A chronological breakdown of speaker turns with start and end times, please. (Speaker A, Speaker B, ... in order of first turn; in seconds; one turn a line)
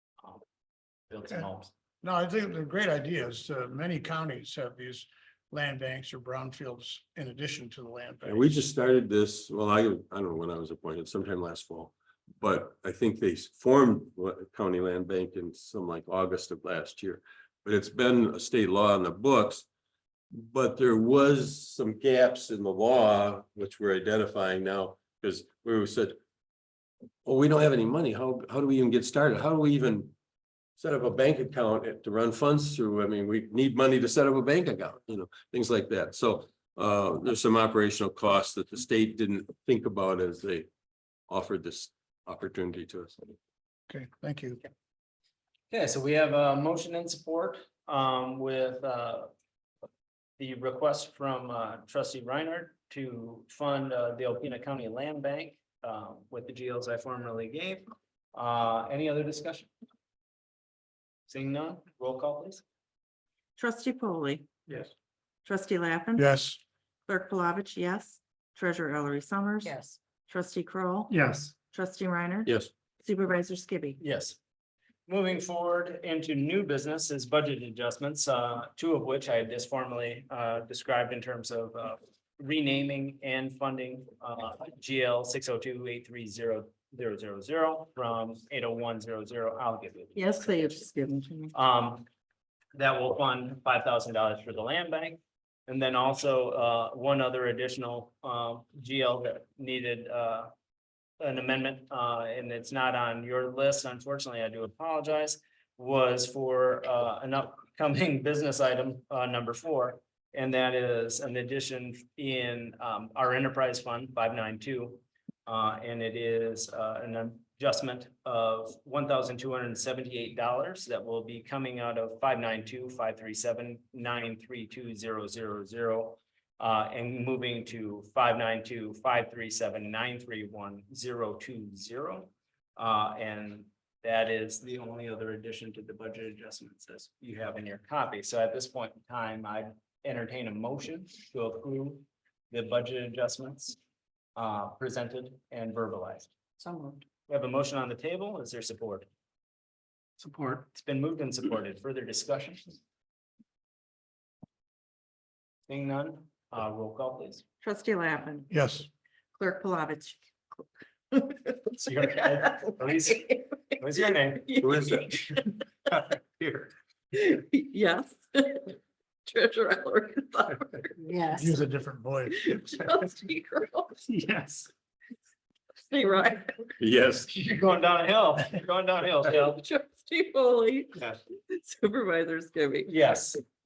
Speaker A: 1.1-1.7
Speaker B: 2.0-8.5
Speaker C: 8.2-19.6
Speaker C: 20.3-26.2
Speaker C: 27.2-30.1
Speaker C: 30.8-40.7
Speaker C: 41.3-43.4
Speaker B: 43.9-44.6
Speaker A: 45.7-49.3
Speaker A: 50.4-59.7
Speaker A: 61.3-62.6
Speaker D: 63.6-64.5
Speaker D: 65.5-66.3
Speaker B: 66.2-66.6
Speaker D: 67.1-72.5
Speaker C: 72.5-72.7
Speaker D: 73.0-74.0
Speaker A: 74.0-74.4
Speaker A: 75.1-90.2
Speaker D: 90.2-91.5
Speaker A: 91.5-92.1
Speaker A: 92.8-100.5
Speaker A: 101.2-143.8
Speaker A: 144.4-146.3
Speaker D: 146.6-147.0
Speaker A: 147.3-149.1
Speaker A: 150.6-152.8
Speaker A: 155.7-157.4
Speaker D: 157.6-158.5
Speaker B: 158.5-158.9
Speaker D: 159.4-161.6
Speaker A: 161.7-165.0
Speaker D: 162.3-162.7
Speaker D: 164.4-165.6
Speaker A: 165.9-166.7
Speaker D: 167.1-171.5
Speaker B: 171.3-172.6
Speaker D: 172.3-174.0
Speaker A: 174.2-174.7
Speaker D: 175.9-176.7
Speaker C: 176.8-177.4
Speaker A: 177.3-179.6
Speaker D: 179.3-182.9
Speaker A: 182.9-183.4